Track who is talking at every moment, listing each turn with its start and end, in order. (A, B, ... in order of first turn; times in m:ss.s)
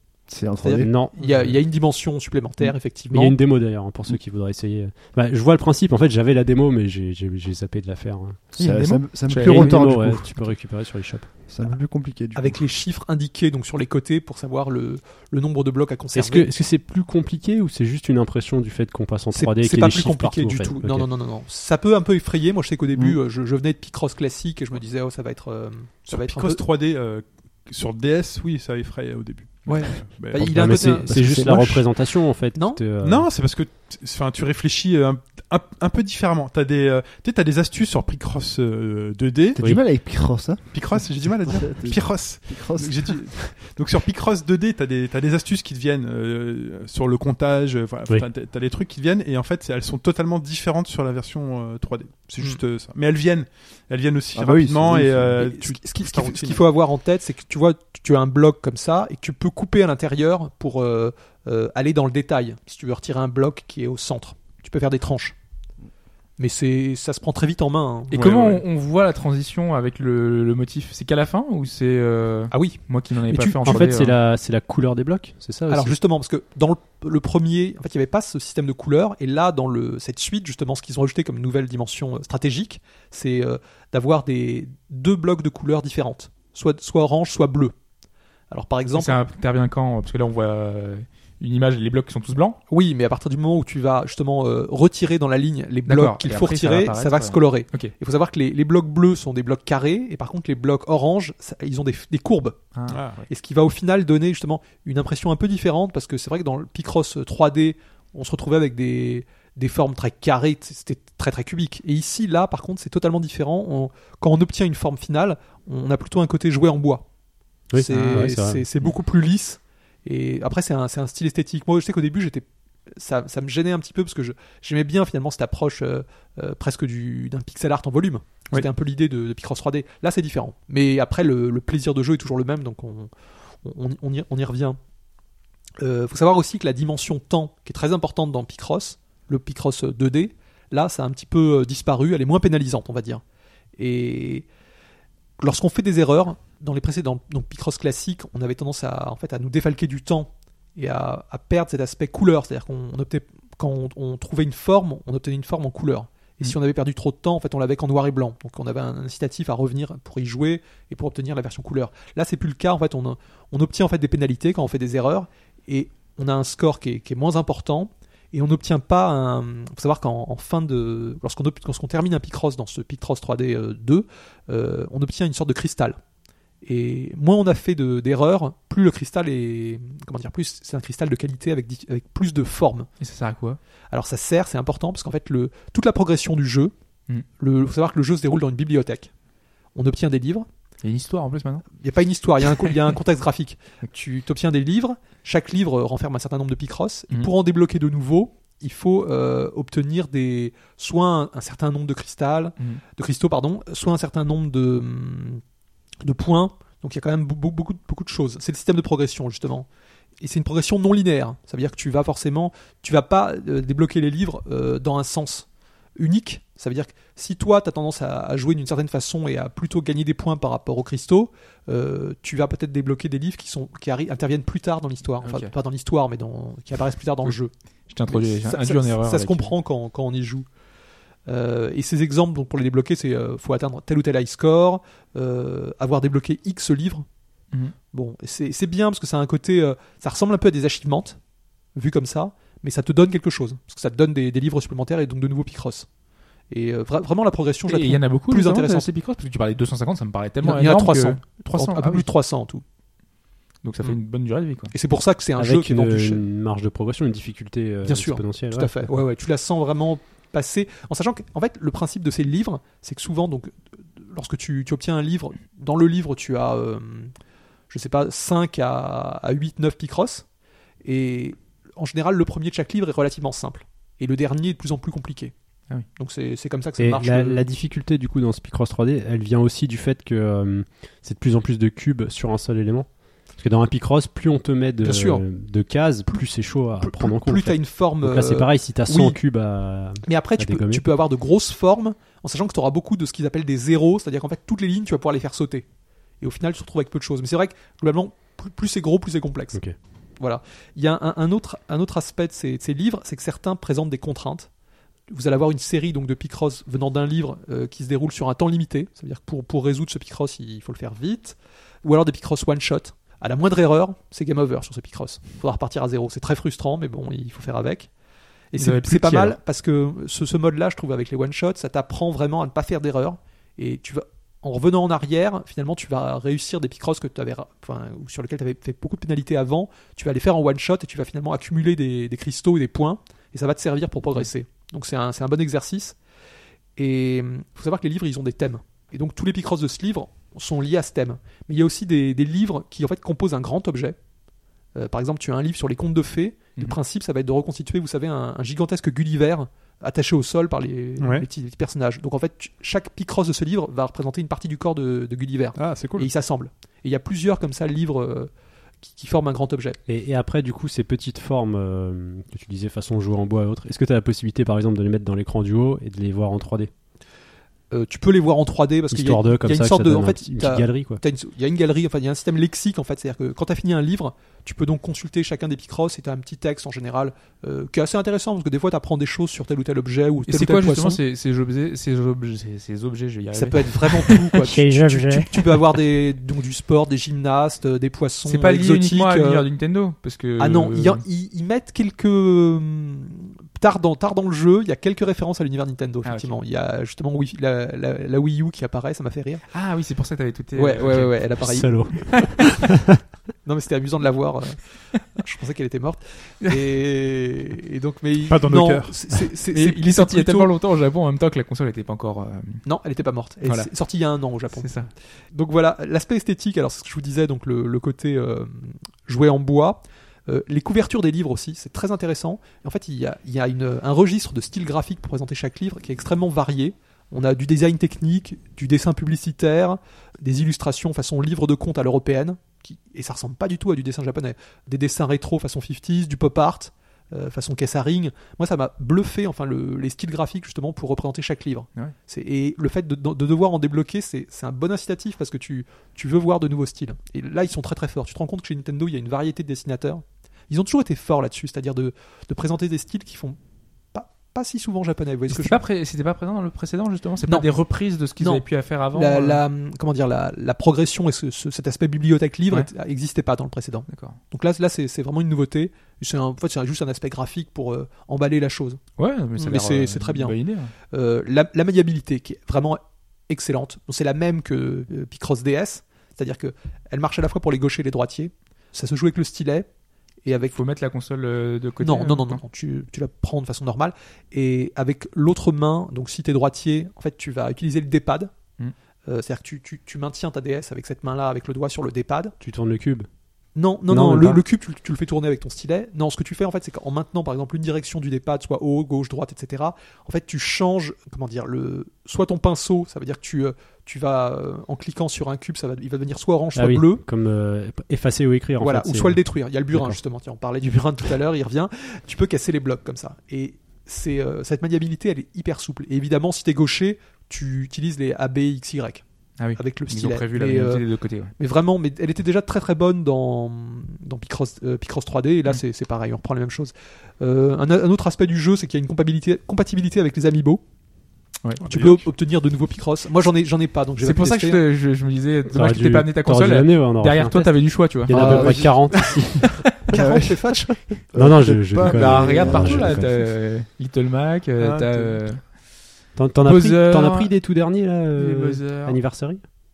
0:00.3-0:01.0 A
0:00.6-0:03.4 B
0:00.8-0:01.6 C
0:02.9-0:08.5 C
0:08.6-0:09.9 D
0:08.6-0:10.5 A
0:09.3-0:11.5 C
0:11.5-0:12.6 A
0:12.3-0:16.5 B
0:16.1-0:21.1 C
0:19.3-0:26.6 B
0:26.1-0:31.0 E
0:29.7-0:32.9 B
0:30.3-0:33.3 C
0:31.1-0:31.7 A
0:33.0-0:39.6 E
0:39.6-0:43.5 A
0:39.6-0:39.8 C
0:40.7-0:56.7 E
0:54.3-0:55.5 A
0:55.4-1:05.4 B
1:06.4-1:08.3 B
1:08.1-1:14.2 D
1:08.2-1:08.6 E
1:12.5-1:13.9 B
1:13.6-1:16.0 C
1:15.7-1:27.8 B
1:28.5-1:29.2 B
1:28.9-1:32.6 D
1:32.7-1:42.7 B
1:35.9-1:37.9 D
1:42.7-1:43.2 D
1:42.9-1:43.2 E
1:43.3-1:57.1 B
1:57.7-1:58.7 C
1:57.7-2:13.1 B
1:57.9-1:58.3 D
2:13.6-2:14.8 B
2:15.8-2:23.2 B
2:23.8-2:24.5 B
2:25.4-2:56.0 B
2:56.6-3:02.9 B
3:03.0-3:03.6 D
3:03.9-3:06.7 B
3:07.3-3:09.1 B
3:09.8-3:10.5 B
3:10.8-3:11.7 D
3:11.7-3:25.4 B
3:26.0-3:29.7 B
3:30.2-3:47.5 B
3:45.2-3:45.5 D
3:47.9-3:49.6 D
3:48.0-3:50.5 B
3:51.3-3:57.1 B
3:57.9-4:01.2 B
4:01.8-4:05.9 B
4:06.5-4:08.9 B
4:07.7-4:12.1 D
4:10.4-4:12.6 B
4:13.6-4:14.7 D
4:14.7-4:16.2 B
4:15.4-4:19.0 C
4:17.8-4:27.1 B
4:27.7-4:30.2 B
4:30.8-4:35.3 B
4:35.9-4:37.4 B
4:36.8-4:50.9 C
4:44.8-4:45.3 B
4:46.1-4:49.2 B
4:50.0-4:55.7 B
4:56.2-4:59.7 B
5:00.2-5:04.5 B
5:05.1-5:17.9 B
5:18.5-5:36.0 B
5:18.6-5:19.4 D
5:36.8-5:44.0 B
5:44.8-5:58.3 B
5:51.0-5:51.3 E
5:55.6-5:56.1 E
5:58.8-5:59.8 B
5:59.9-6:06.7 C
6:07.7-6:21.0 B
6:08.9-6:11.0 C
6:20.3-6:24.3 D
6:23.3-6:29.5 B
6:24.5-6:25.3 C
6:28.2-6:31.0 D
6:30.4-6:39.4 B
6:36.0-6:36.4 D
6:39.5-6:41.4 D
6:40.6-6:42.3 B
6:41.4-6:42.8 C
6:43.4-6:50.5 B
6:48.2-6:49.0 E
6:49.5-6:52.6 D
6:52.6-7:33.4 B
6:53.4-6:53.7 D
6:54.5-6:54.9 D
7:33.9-7:35.6 B
7:35.3-7:39.4 D
7:37.3-7:48.8 B
7:43.9-7:44.2 D
7:49.0-7:50.7 D
7:49.4-7:59.7 B
8:00.2-8:00.6 B
8:00.5-8:02.4 D
8:01.8-8:08.3 B
8:09.1-8:12.4 B
8:12.4-8:13.1 C
8:13.6-8:27.0 B
8:13.9-8:14.4 C
8:26.6-8:30.0 C
8:28.6-8:39.0 B
8:39.4-8:41.3 D
8:39.6-8:50.6 B
8:51.4-8:52.0 D
8:51.6-8:51.9 E
8:51.7-8:54.6 B
8:54.0-8:58.7 D
8:55.5-8:59.7 C
8:58.1-9:01.0 B
8:59.9-9:03.1 A
9:01.2-9:03.2 C
9:01.8-9:05.6 D
9:04.6-9:05.2 E
9:06.2-9:09.4 C
9:06.4-9:07.4 D
9:08.2-9:09.0 D